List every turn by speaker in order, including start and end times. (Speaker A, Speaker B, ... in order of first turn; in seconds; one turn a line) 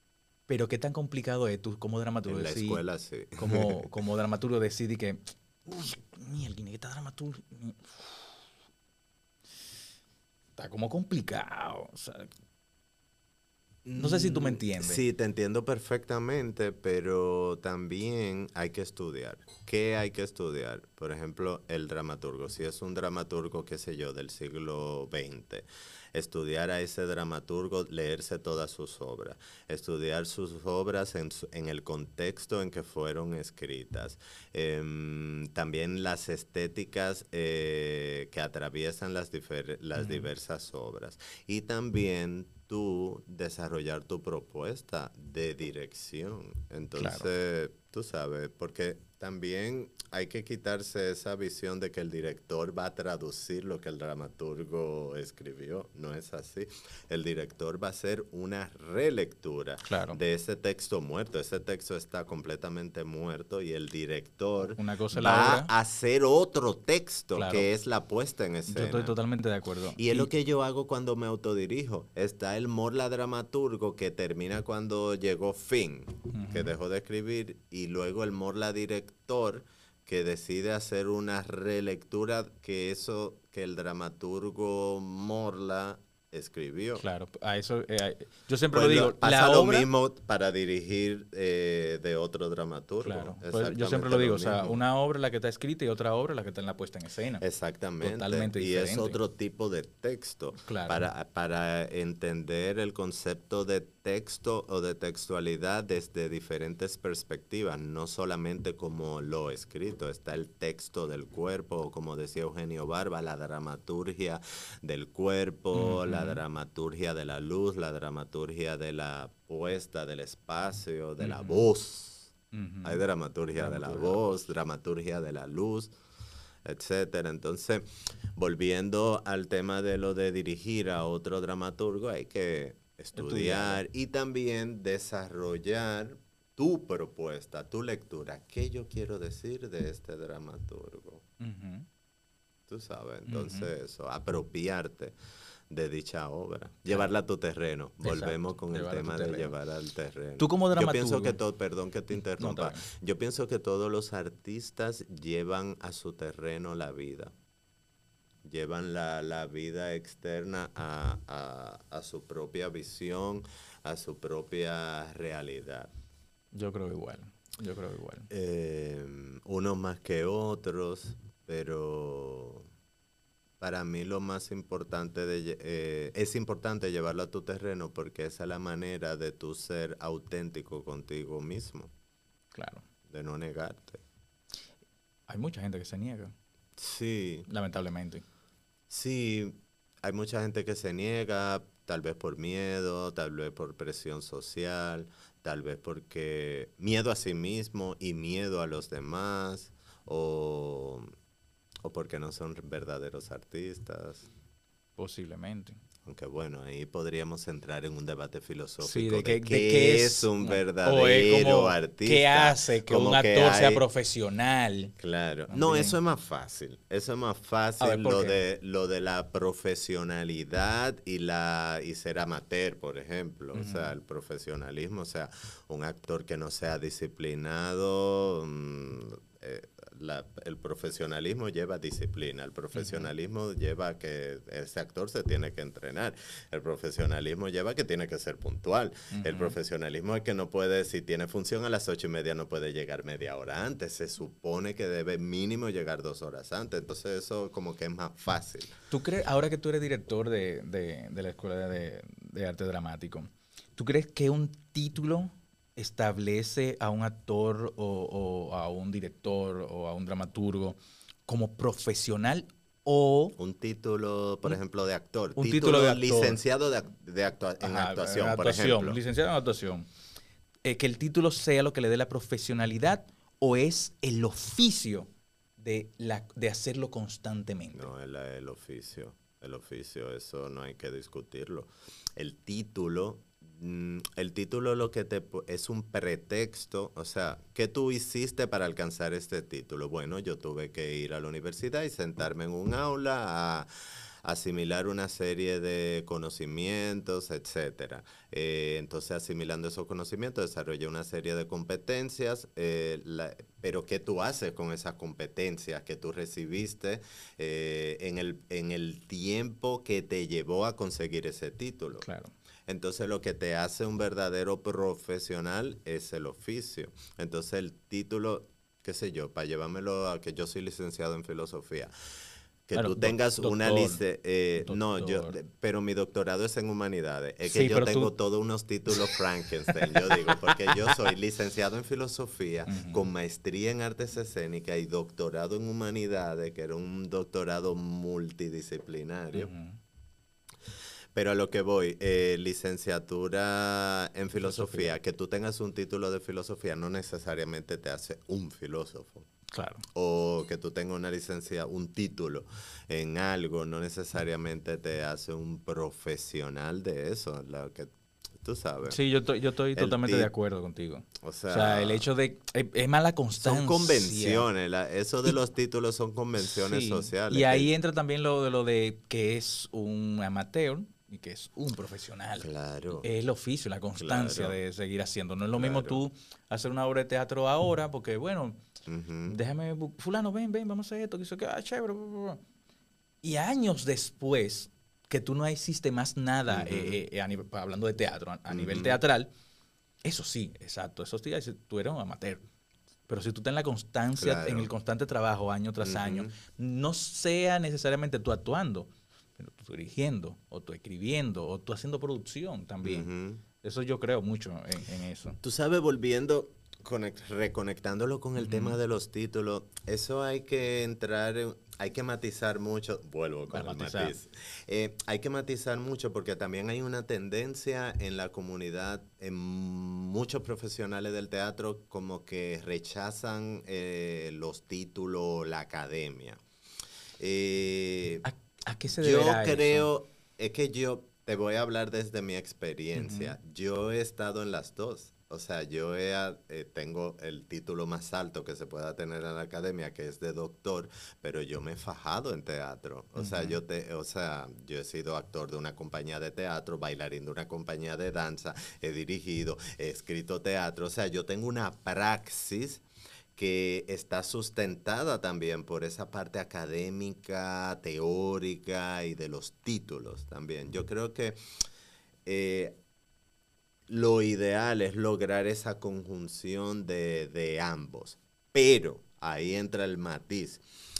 Speaker A: 0.5-2.8
Speaker B: 2.3-3.9
Speaker A: 3.4-8.4
Speaker A: 10.6-12.3
Speaker B: 13.8-69.2
Speaker A: 13.9-15.0
Speaker A: 40.0-40.3
Speaker A: 47.0-47.3
Speaker A: 59.9-60.2
Speaker A: 64.8-65.7
Speaker A: 67.3-67.7
Speaker A: 68.7-70.3
Speaker B: 70.0-87.0
Speaker A: 76.3-76.8
Speaker A: 87.0-89.9
Speaker B: 88.7-94.8
Speaker A: 93.0-97.4
Speaker B: 97.4-122.3
Speaker A: 98.0-99.2
Speaker A: 100.6-101.0
Speaker A: 115.7-116.4
Speaker A: 121.2-121.7
Speaker A: 122.5-124.3
Speaker B: 122.8-126.0
Speaker B: 126.7-141.2
Speaker A: 133.2-133.8
Speaker A: 141.4-141.9
Speaker B: 142.7-145.2
Speaker A: 143.3-143.7
Speaker B: 145.7-157.3
Speaker A: 148.0-149.6
Speaker A: 150.4-151.4
Speaker A: 152.4-152.8
Speaker B: 158.4-165.9
Speaker A: 166.5-168.3
Speaker B: 168.3-172.7
Speaker B: 173.6-181.9
Speaker A: 182.5-182.8
Speaker B: 183.1-184.0
Speaker A: 185.3-186.3
Speaker B: 186.8-187.5
Speaker A: 187.5-188.2
Speaker B: 188.9-201.1
Speaker B: 201.8-204.3
Speaker A: 205.0-205.8
Speaker B: 206.1-213.8
Speaker A: 208.8-214.9
Speaker B: 215.0-248.7
Speaker A: 215.5-216.0
Speaker A: 217.8-218.4
Speaker A: 223.6-224.0
Speaker A: 232.7-233.1
Speaker A: 239.1-239.6
Speaker A: 248.9-263.4
Speaker B: 263.4-269.0
Speaker A: 265.4-266.4
Speaker A: 267.6-269.9
Speaker A: 270.6-277.9
Speaker B: 277.7-293.7
Speaker B: 294.2-312.1
Speaker A: 312.0-312.3
Speaker B: 312.7-321.9
Speaker B: 322.7-339.5
Speaker A: 322.8-324.0
Speaker A: 324.6-325.4
Speaker A: 327.5-328.1
Speaker A: 329.8-331.0
Speaker A: 332.7-333.0
Speaker A: 339.3-339.8
Speaker B: 341.1-349.3
Speaker A: 344.4-344.9
Speaker A: 349.5-349.8
Speaker B: 349.9-359.0
Speaker A: 358.9-364.5
Speaker B: 359.8-360.3
Speaker B: 361.2-362.1
Speaker B: 363.4-367.7
Speaker A: 366.4-378.6
Speaker B: 372.4-373.1
Speaker B: 374.0-374.6
Speaker B: 375.6-376.1
Speaker B: 378.9-379.4
Speaker A: 379.3-382.4
Speaker A: 383.2-389.3
Speaker B: 386.5-387.0
Speaker B: 388.5-389.0
Speaker A: 390.0-392.4
Speaker A: 393.1-405.4
Speaker B: 394.2-394.7
Speaker B: 395.8-396.4
Speaker B: 402.8-403.4
Speaker B: 405.4-426.4
Speaker A: 408.4-408.8
Speaker A: 413.5-414.2
Speaker B: 427.2-428.3
Speaker A: 428.2-429.9
Speaker B: 428.9-452.8
Speaker A: 433.0-433.4
Speaker A: 443.2-443.6
Speaker B: 453.4-461.4
Speaker B: 462.2-462.8
Speaker B: 463.9-470.6